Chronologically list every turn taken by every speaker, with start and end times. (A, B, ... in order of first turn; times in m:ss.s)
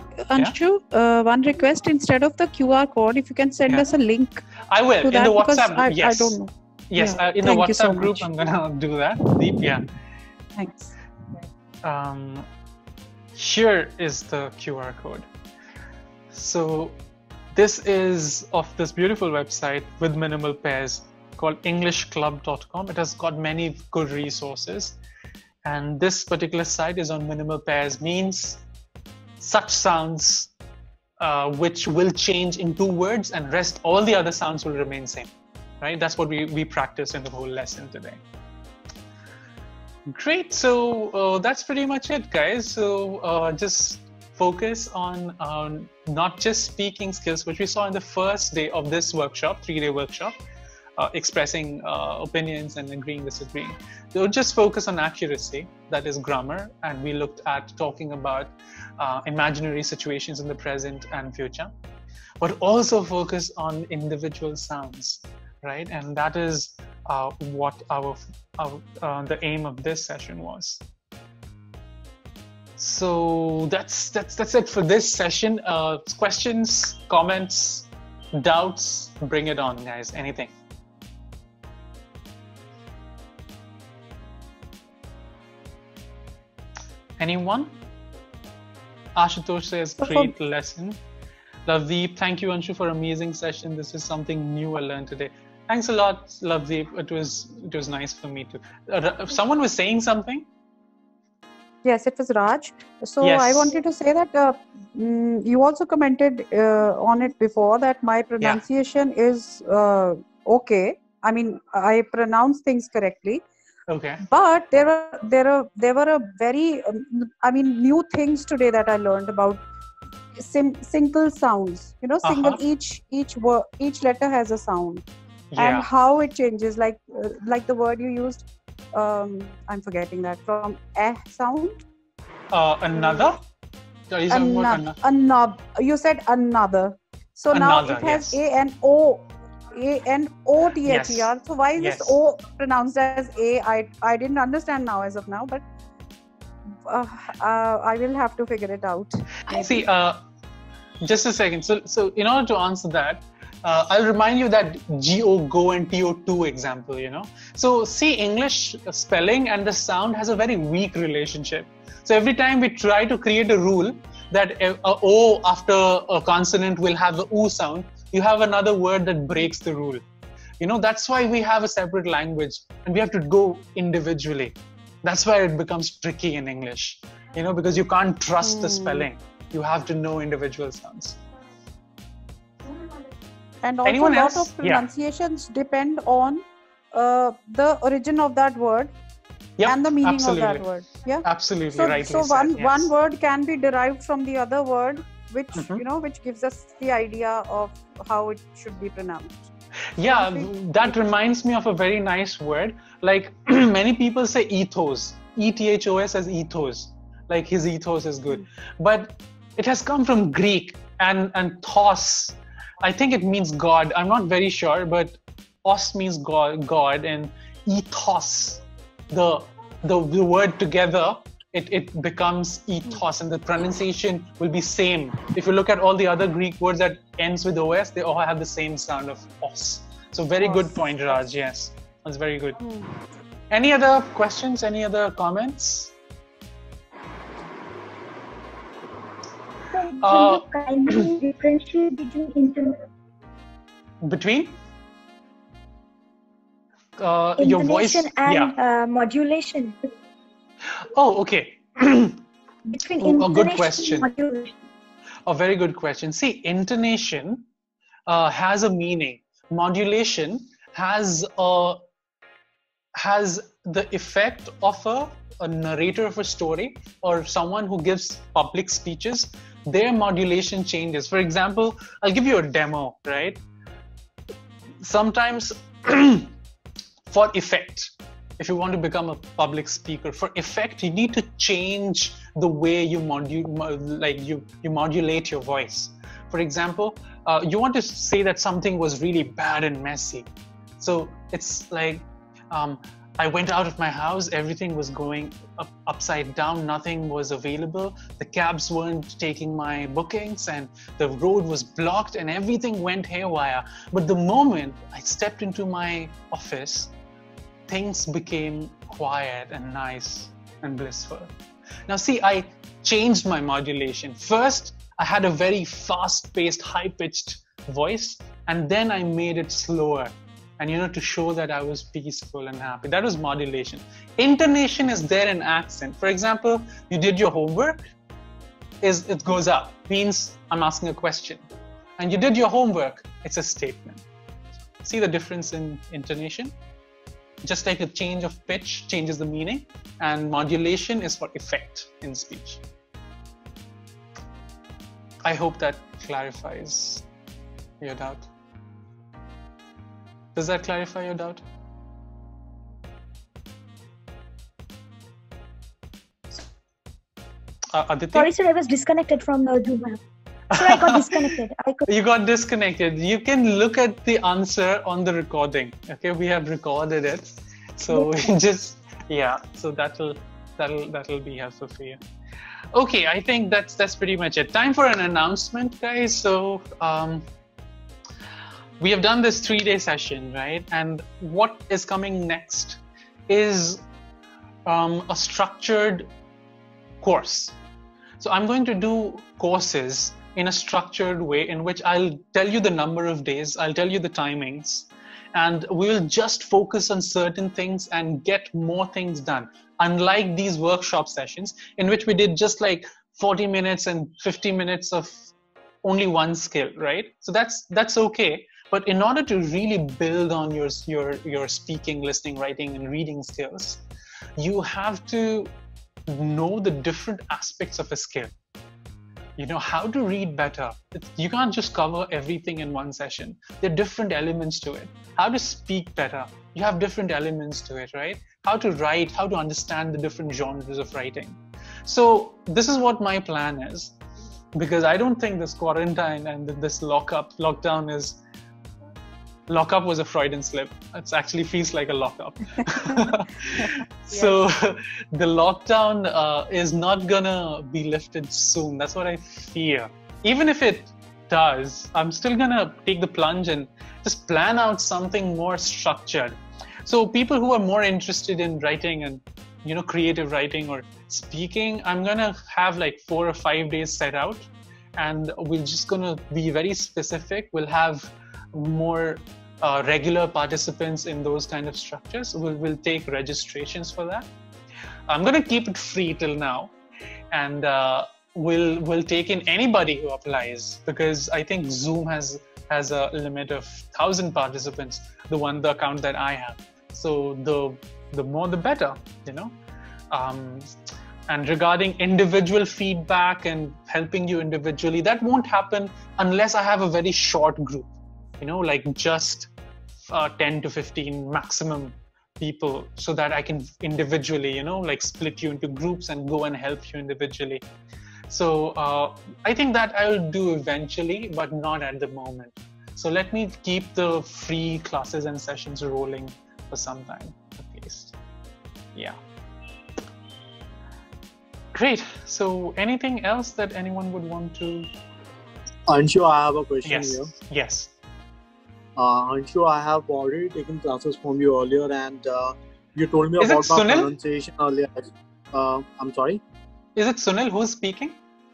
0:00.2-0:04.4 A
0:04.7-0:06.4 B
0:05.0-0:08.3 A
0:06.9-0:09.8 B
0:10.6-0:10.9 A
0:11.8-0:12.4 B
0:13.4-0:15.3 B
0:16.3-0:17.0 B
0:17.5-0:25.0 B
0:25.6-0:28.6 B
0:29.4-0:30.5 B
0:31.2-0:35.3 B
0:35.8-0:38.2 B
0:40.1-0:50.3 B
0:51.0-1:01.7 B
1:02.4-1:10.8 B
1:12.8-1:20.5 B
1:27.2-1:27.8 B
1:29.2-1:31.0 B
1:30.0-1:30.3 A
1:31.7-1:40.5 B
1:41.8-1:53.4 A
1:43.2-1:43.7 B
1:53.9-1:54.2 B
1:54.2-1:59.6 A
2:00.3-2:05.0 A
2:02.2-2:02.6 B
2:05.5-2:05.9 B
2:05.6-2:11.8 A
2:12.5-2:13.4 B
2:12.9-2:13.3 A
2:14.1-2:15.0 B
2:14.3-2:25.6 A
2:17.5-2:18.4 B
2:20.8-2:22.2 B
2:26.8-2:29.6 A
2:29.5-2:30.2 B
2:31.0-2:50.0 B
2:50.6-3:01.2 B
2:58.4-2:59.1 A
3:03.6-3:08.9 A
3:03.8-3:04.8 B
3:09.6-3:10.6 B
3:09.6-3:19.4 A
3:11.2-3:12.9 B
3:15.5-3:15.8 B
3:20.0-3:52.6 B
3:20.1-3:20.9 A
3:52.6-3:52.9 A
3:53.5-3:55.9 B
3:59.7-4:02.8 C
4:00.0-4:00.4 B
4:04.0-4:04.6 B
4:07.0-4:08.5 B
4:07.4-4:09.8 C
4:10.9-4:12.2 B
4:12.7-4:14.5 C
4:13.0-4:14.1 B
4:15.2-4:17.4 B
4:18.1-4:21.8 B
4:23.0-4:33.4 B
4:34.8-4:36.3 B
4:37.1-4:50.3 B
4:50.8-5:06.9 B
5:07.7-5:11.3 B
5:11.9-5:27.8 B
5:28.8-5:31.4 B
5:32.0-5:34.0 B
5:34.8-5:36.5 B
5:37.4-5:42.6 B
5:45.2-5:47.0 B
5:47.8-5:48.3 B
5:50.3-5:51.4 B
5:57.7-5:58.3 B
5:58.1-6:00.0 C
6:00.5-6:01.3 B
6:00.5-6:01.9 C
6:01.9-6:12.0 B
6:07.9-6:08.3 C
6:12.7-6:17.3 B
6:18.8-6:23.8 B
6:24.6-6:26.1 B
6:27.0-6:27.6 B
6:28.2-6:45.3 B
6:45.8-6:53.8 B
6:54.4-6:55.5 B
6:56.1-6:58.3 B
6:59.4-7:14.0 B
7:14.5-7:18.2 B
7:19.5-7:36.4 B
7:23.6-7:24.4 A
7:36.9-7:54.3 B
7:55.1-7:56.7 B
7:57.3-8:09.5 B
8:10.1-8:10.7 B
8:11.3-8:17.9 B
8:18.4-8:19.5 B
8:20.1-8:27.6 B
8:28.3-8:38.1 B
8:41.7-8:44.9 B
8:45.9-8:47.3 D
8:46.8-8:47.9 B
8:49.0-8:56.4 D
8:53.4-8:54.1 B
8:57.0-8:58.2 B